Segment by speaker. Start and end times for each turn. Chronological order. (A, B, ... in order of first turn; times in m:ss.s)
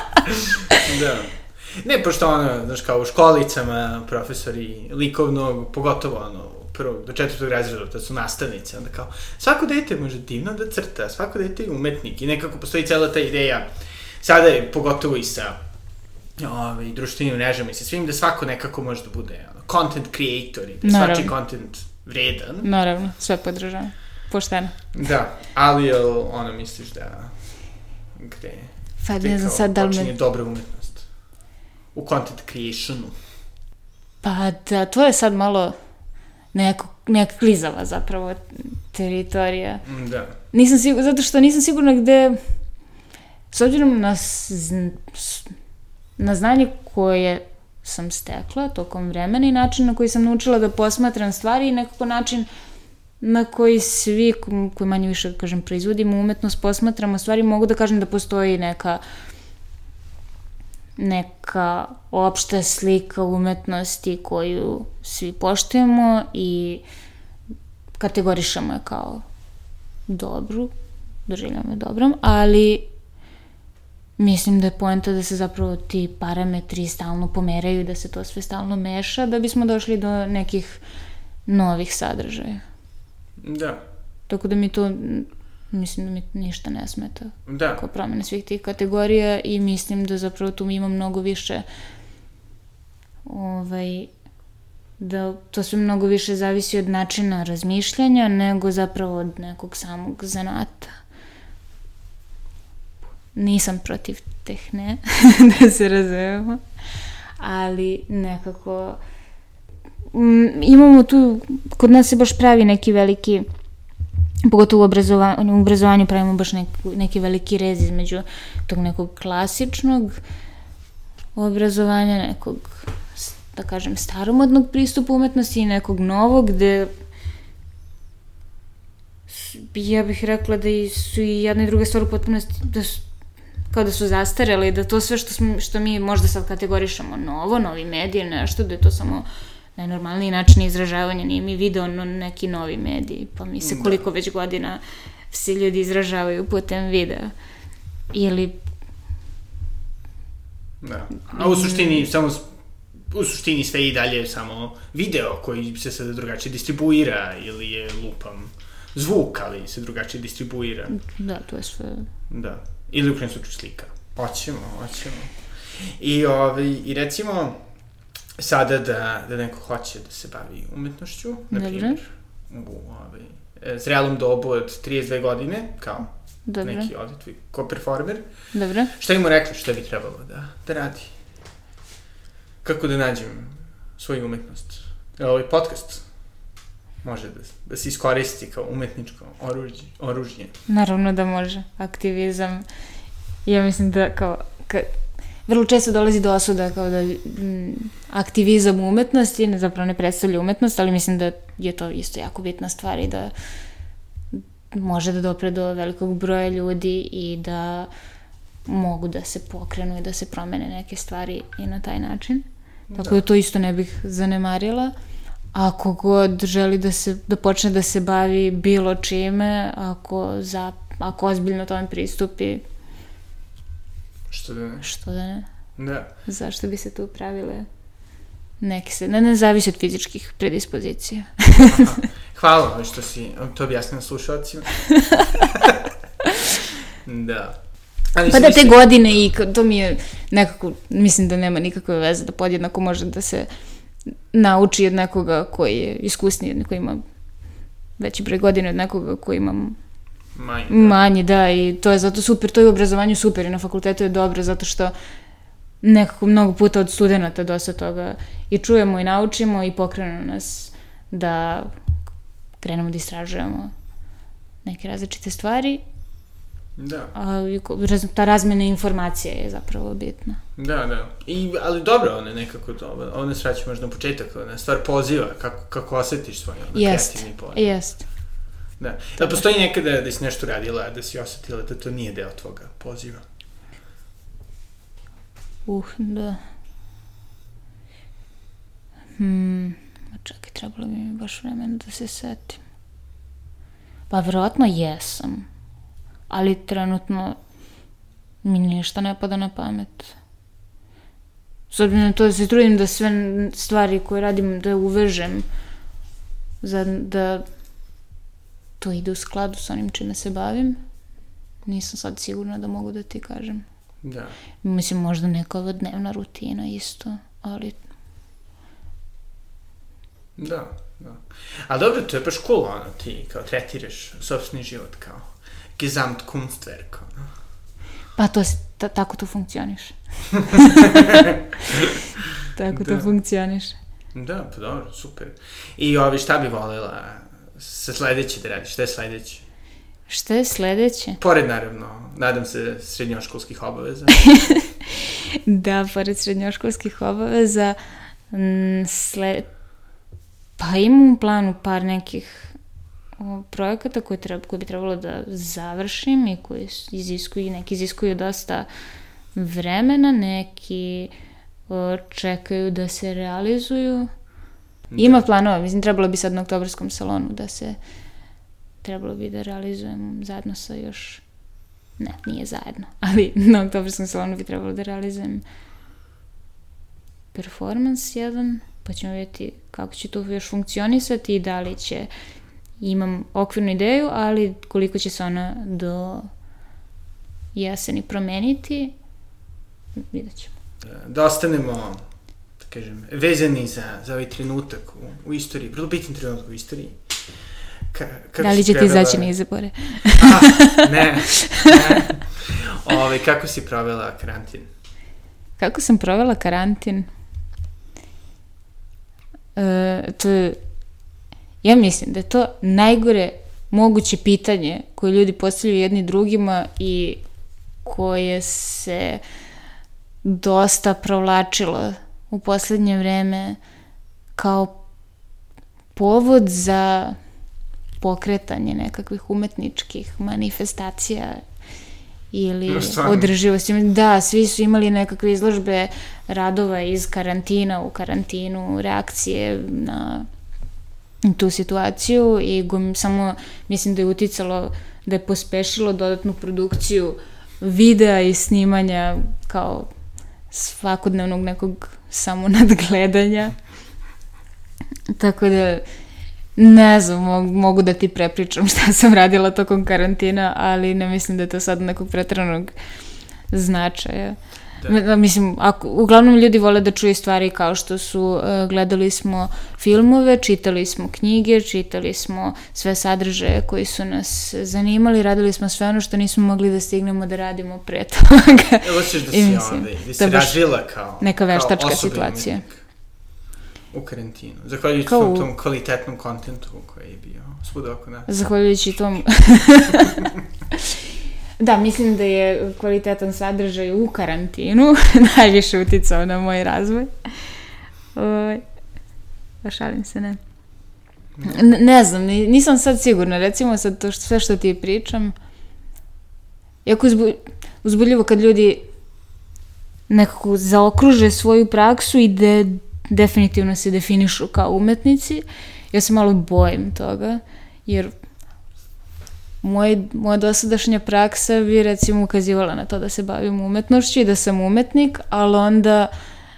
0:00.3-0:13.7 A
0:14.2-0:15.6 A
0:16.4-0:22.7 A
0:20.8-0:21.3 B
0:22.6-0:24.8 B
0:24.9-0:27.4 A
0:28.1-0:31.1 A
0:29.0-0:30.1 B
0:31.9-0:33.2 A
0:34.2-0:35.8 B
0:36.5-0:39.8 B
0:39.8-0:40.4 A
0:40.5-0:42.4 B
0:43.5-0:45.5 B
0:46.2-0:52.5 B
0:53.2-0:59.0 B
1:01.0-1:06.8 B
1:08.0-1:09.2 B
1:10.1-1:10.7 B
1:11.2-1:12.9 B
1:14.2-1:20.8 B
1:21.5-1:22.6 B
1:23.4-1:23.8 A
1:24.3-1:31.6 B
1:27.4-1:27.8 A
1:33.2-1:34.1 B
1:35.0-1:40.9 B
1:43.3-1:46.6 B
1:47.4-1:49.0 B
1:50.1-1:53.4 B
1:54.4-2:00.2 B
2:01.3-2:06.9 B
2:09.3-2:13.0 B
2:13.7-2:27.3 B
2:23.6-2:24.0 A
2:28.1-2:28.6 B
2:30.8-2:40.9 A
2:31.4-2:32.0 B
2:40.9-2:42.1 B
2:42.3-2:47.6 A
2:48.4-3:01.1 A
2:51.5-2:52.0 B
2:56.4-2:56.9 B
2:58.5-2:58.9 B
3:02.6-3:06.3 A
3:07.0-3:10.5 A
3:10.7-3:12.6 B
3:13.4-3:14.9 B
3:15.4-3:23.3 B
3:24.3-3:27.9 B
3:28.6-3:32.4 B
3:32.9-3:33.2 A
3:32.9-3:34.9 B
3:35.5-3:42.6 B
3:44.3-3:44.9 A
3:44.8-3:45.5 B
3:45.8-3:46.1 A
3:46.2-3:47.7 B
3:48.6-3:52.0 B
3:51.7-3:55.8 A
3:57.0-3:59.3 A
3:58.3-4:03.5 B
4:04.3-4:07.0 B
4:08.0-4:09.8 B
4:10.3-4:11.0 A
4:10.7-4:14.9 B
4:15.8-4:21.7 B
4:22.6-4:23.7 B
4:24.6-4:25.8 B
4:26.8-4:27.1 A
4:27.1-4:30.4 B
4:30.6-4:37.8 A
4:36.7-4:38.1 B
4:38.8-4:43.2 A
4:39.2-4:39.4 B
4:45.6-4:46.4 B
4:49.2-4:52.6 B
4:54.1-4:55.5 B
4:56.3-4:57.4 B
4:58.4-5:00.1 B
5:01.7-5:05.4 B
5:06.6-5:07.4 B
5:08.8-5:10.8 B
5:11.6-5:13.6 B
5:14.0-5:14.4 A
5:14.6-5:17.8 B
5:20.4-5:27.3 A
5:28.2-5:31.3 B
5:32.5-5:33.7 B
5:32.7-5:33.1 A
5:34.1-5:39.4 A
5:40.1-5:41.2 B
5:41.2-5:44.2 A
5:44.3-5:47.8 B
5:48.3-5:49.5 B
5:50.6-5:52.5 B
5:53.2-5:58.7 B
5:59.3-6:01.1 B
6:01.7-6:04.1 B
6:04.9-6:05.2 A
6:05.0-6:07.8 B
6:08.8-6:11.2 B
6:12.0-6:15.4 B
6:17.3-6:22.1 B
6:22.8-6:26.3 B
6:27.5-6:28.9 B
6:30.1-6:30.5 B
6:30.8-6:32.0 A
6:32.6-6:37.2 A
6:37.9-6:39.3 A
6:38.4-6:40.8 B
6:40.2-6:44.7 A
6:45.6-6:47.1 B
6:49.6-6:50.6 B
6:51.6-6:57.2 B
6:57.8-6:59.2 B
7:00.2-7:03.6 B
7:04.4-7:04.8 B
7:05.9-7:07.2 B
7:08.0-7:11.4 B
7:12.3-7:20.3 B
7:12.7-7:13.3 A
7:21.2-7:29.9 B
7:30.5-7:33.6 B
7:35.1-7:35.8 B
7:36.6-7:42.7 B
7:43.5-8:02.6 B
7:58.8-8:02.8 A
8:03.9-8:08.3 A
8:05.1-8:05.5 B
8:08.3-8:10.2 B
8:11.6-8:17.5 B
8:18.1-8:18.7 B
8:19.6-8:20.4 B
8:21.4-8:25.3 B
8:26.8-8:28.8 B
8:30.1-8:38.1 B
8:39.6-8:46.1 B